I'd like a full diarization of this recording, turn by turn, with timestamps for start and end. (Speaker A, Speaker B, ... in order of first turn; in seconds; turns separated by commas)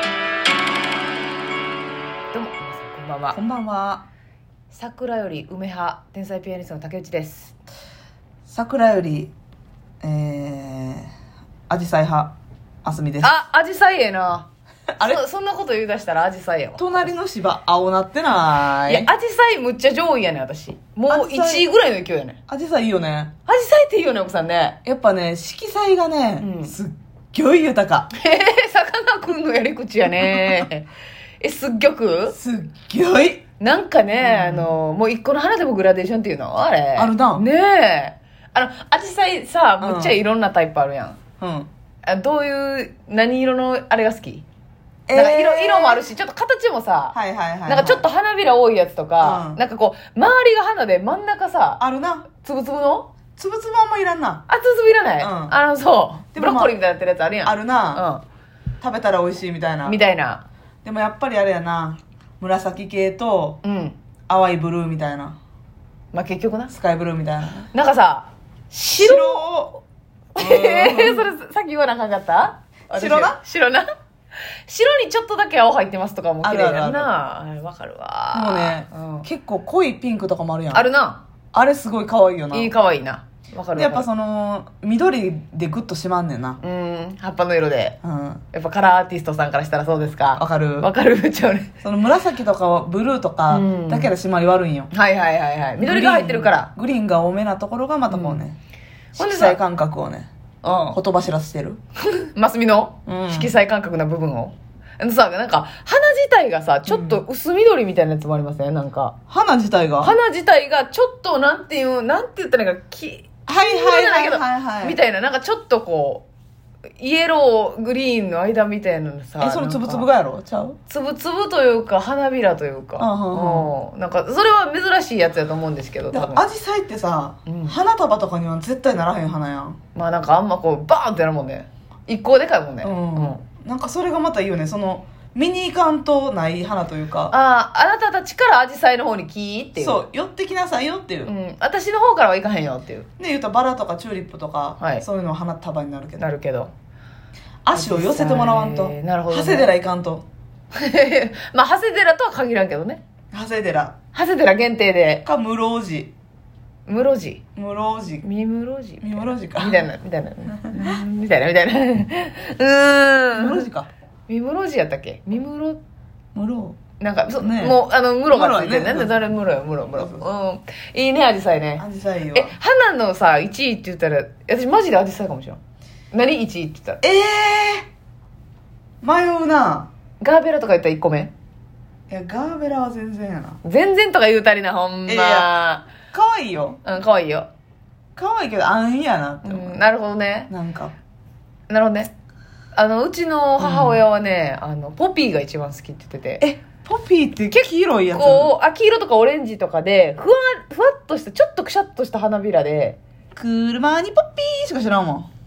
Speaker A: 2.3-3.4, Speaker B: 3.3-4.1, Speaker A: 4.7-7.5, Speaker B: 8.5-9.3, Speaker B: 10.0-11.1, Speaker B: 11.7-13.3, Speaker A: 13.2-14.5, Speaker B: 14.9-15.2, Speaker A: 15.0-16.9, Speaker B: 16.8-19.1, Speaker A: 18.9-22.4, Speaker B: 21.1-21.7, Speaker B: 22.5-23.3, Speaker A: 23.5-24.8, Speaker B: 24.8-28.1, Speaker A: 26.4-26.7, Speaker A: 28.1-30.9, Speaker B: 30.1-30.6, Speaker A: 31.4-32.3, Speaker B: 32.3-33.4, Speaker A: 33.6-41.2, Speaker B: 34.2-34.7, Speaker B: 37.0-37.5, Speaker B: 39.8-40.2, Speaker B: 41.4-41.7, Speaker A: 42.0-44.4, Speaker B: 45.1-46.1, Speaker A: 45.1-51.8, Speaker B: 47.1-48.0, Speaker B: 49.2-49.6, Speaker B: 51.8-52.3, Speaker A: 52.4-53.1, Speaker B: 53.4-54.4, Speaker A: 54.5-58.2, Speaker B: 55.2-55.5, Speaker B: 56.3-56.8, Speaker B: 57.4-58.0, Speaker B: 58.8-60.0, Speaker A: 59.8-60.4, Speaker B: 60.8-63.6, Speaker A: 63.6-64.0, Speaker B: 64.3-65.4, Speaker A: 66.1-66.7, Speaker B: 66.7-67.7, Speaker A: 67.7-69.4, Speaker B: 69.0-69.8, Speaker A: 70.3-73.8, Speaker B: 70.4-71.3, Speaker B: 72.9-73.4, Speaker A: 74.7-79.2, Speaker B: 76.4-77.1, Speaker B: 78.3-80.9, Speaker A: 80.7-81.2, Speaker B: 81.5-82.7, Speaker A: 82.5-84.1, Speaker B: 83.7-86.6, Speaker A: 86.6-88.0, Speaker B: 88.0-88.4, Speaker A: 88.5-91.7, Speaker B: 90.3-90.9, Speaker B: 91.8-94.9, Speaker A: 93.5-94.1, Speaker A: 94.9-96.7, Speaker B: 95.8-98.6, Speaker A: 98.1-98.4, Speaker B: 99.1-100.3, Speaker A: 99.2-99.6, Speaker A: 100.6-101.0, Speaker B: 100.8-101.8, Speaker A: 102.1-109.2, Speaker B: 103.0-103.5, Speaker B: 106.9-107.2, Speaker B: 109.3-110.2, Speaker A: 110.0-116.2, Speaker B: 113.5-115.0, Speaker A: 117.0-120.1, Speaker B: 119.4-120.8, Speaker A: 120.9-126.4, Speaker B: 123.0-123.7, Speaker B: 126.1-129.8, Speaker A: 127.5-127.8, Speaker A: 129.9-133.3, Speaker B: 132.8-137.3, Speaker A: 137.3-140.0, Speaker B: 139.8-141.3, Speaker A: 141.2-143.1, Speaker B: 143.2-146.3, Speaker A: 144.8-145.0, Speaker A: 146.2-146.7, Speaker B: 147.6-150.2, Speaker A: 147.7-149.7, Speaker A: 150.7-153.0, Speaker B: 153.3-153.9, Speaker A: 154.1-155.2, Speaker B: 155.2-156.1, Speaker A: 156.9-157.4, Speaker B: 157.6-158.2, Speaker A: 158.2-163.7, Speaker B: 159.0-159.9, Speaker B: 160.5-161.0, Speaker B: 163.3-163.9, Speaker A: 164.3-165.8, Speaker B: 166.3-166.8, Speaker A: 167.0-175.6, Speaker B: 167.4-169.3, Speaker B: 169.9-170.2, Speaker B: 171.8-172.5, Speaker A: 176.1-177.0, Speaker B: 177.0-177.9, Speaker B: 179.0-179.9, Speaker A: 180.2-181.3, Speaker B: 182.1-183.6, Speaker A: 183.6-185.9, Speaker B: 185.1-185.5, Speaker B: 186.1-186.8, Speaker A: 186.8-187.5, Speaker B: 188.2-189.8, Speaker A: 189.4-190.5, Speaker B: 190.5-190.9, Speaker A: 191.7-192.1, Speaker A: 192.7-196.4, Speaker B: 193.6-194.0, Speaker B: 196.4-198.5, Speaker A: 197.5-203.0, Speaker B: 203.3-205.3